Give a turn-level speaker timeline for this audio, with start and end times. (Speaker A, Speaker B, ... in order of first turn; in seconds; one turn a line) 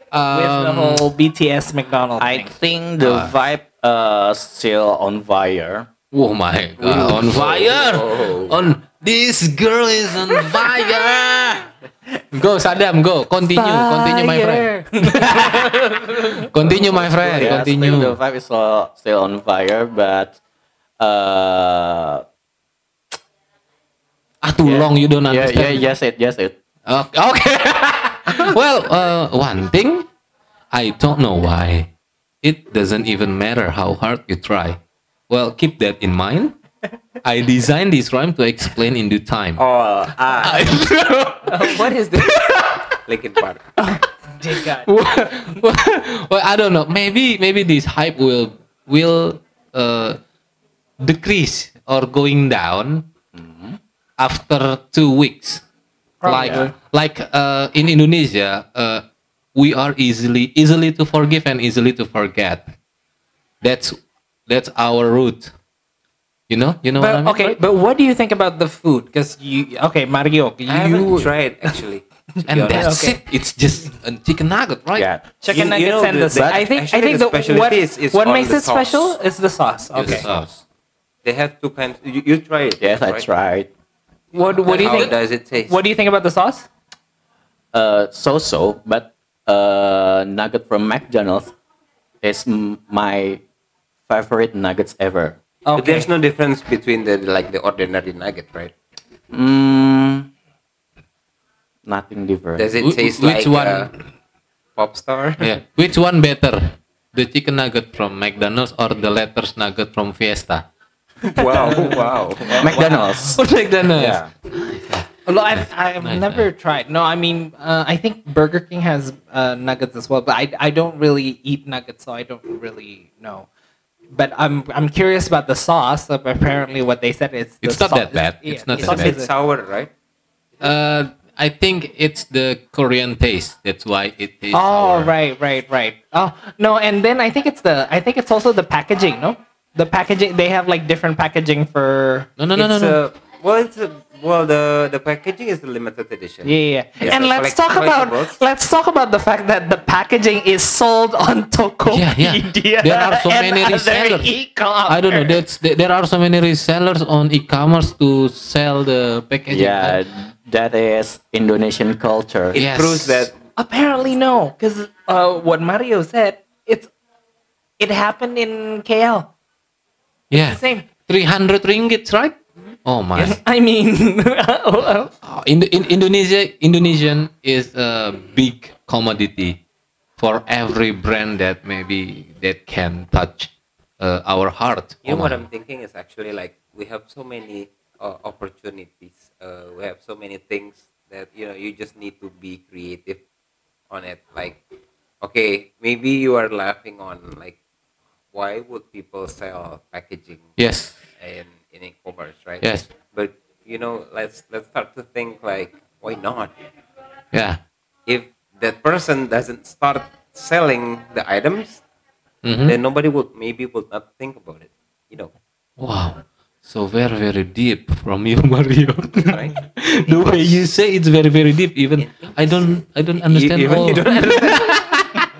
Speaker A: 0.1-1.1
Speaker B: 0.3-2.5
Speaker C: 2.2-5.9
Speaker A: 3.0-3.3
Speaker A: 6.1-11.7
Speaker C: 6.8-7.3
Speaker D: 7.1-8.7
Speaker A: 12.3-15.7
Speaker B: 13.4-16.5
Speaker A: 16.4-18.2
Speaker C: 16.9-20.4
Speaker D: 17.2-17.6
Speaker C: 21.0-22.2
Speaker A: 24.4-25.9
Speaker C: 24.6-26.5
Speaker A: 26.9-30.1
Speaker A: 30.7-31.9
Speaker A: 32.4-36.5
Speaker A: 37.2-39.6
Speaker D: 39.6-40.7
Speaker A: 40.4-41.6
Speaker B: 41.4-42.4
Speaker A: 42.2-42.9
Speaker D: 43.1-43.6
Speaker B: 43.8-44.9
Speaker A: 44.8-50.2
Speaker A: 51.0-53.0
Speaker C: 53.3-53.8
Speaker A: 54.2-55.6
Speaker B: 56.2-56.7
Speaker A: 56.3-59.0
Speaker A: 59.5-62.7
Speaker A: 63.6-65.5
Speaker A: 66.5-67.6
Speaker B: 67.0-71.8
Speaker D: 70.7-72.9
Speaker A: 72.5-75.1
Speaker B: 72.7-73.2
Speaker C: 74.9-75.2
Speaker B: 75.4-80.3
Speaker D: 75.5-79.2
Speaker A: 79.9-80.6
Speaker D: 80.0-80.3
Speaker D: 81.2-83.3
Speaker C: 82.8-83.7
Speaker B: 84.3-86.7
Speaker A: 84.4-85.1
Speaker D: 84.6-85.8
Speaker C: 87.7-91.5
Speaker C: 92.2-93.4
Speaker C: 94.1-95.4
Speaker B: 95.7-96.1
Speaker D: 95.8-98.7
Speaker C: 99.3-100.3
Speaker C: 101.8-102.7
Speaker D: 102.5-103.9
Speaker A: 102.8-103.9
Speaker D: 104.7-105.5
Speaker A: 105.4-110.6
Speaker D: 111.3-113.2
Speaker C: 112.5-114.3
Speaker A: 113.3-116.4
Speaker B: 115.2-123.5
Speaker B: 124.1-129.3
Speaker A: 127.6-129.2
Speaker D: 128.7-129.9
Speaker A: 130.6-135.1
Speaker B: 134.5-142.3
Speaker A: 142.4-143.0
Speaker D: 142.5-148.4
Speaker B: 146.4-155.4
Speaker A: 151.9-154.3
Speaker A: 154.9-160.0
Speaker C: 159.5-162.6
Speaker D: 162.5-163.3
Speaker A: 162.5-163.3
Speaker B: 163.6-166.9
Speaker B: 167.8-169.3
Speaker A: 170.3-173.4
Speaker B: 170.3-170.8
Speaker B: 173.1-175.1
Speaker A: 175.2-179.6
Speaker A: 180.2-185.4
Speaker D: 185.0-193.2
Speaker D: 193.9-194.6
Speaker D: 195.2-197.6
Speaker D: 198.3-200.5
Speaker A: 200.6-201.0
Speaker D: 201.2-206.5
Speaker A: 202.6-202.9
Speaker A: 207.3-207.6
Speaker D: 208.1-211.8
Speaker A: 212.4-212.8
Speaker D: 212.6-215.3
Speaker A: 215.8-225.0
Speaker D: 219.2-219.6
Speaker D: 222.0-224.8
Speaker B: 223.9-224.5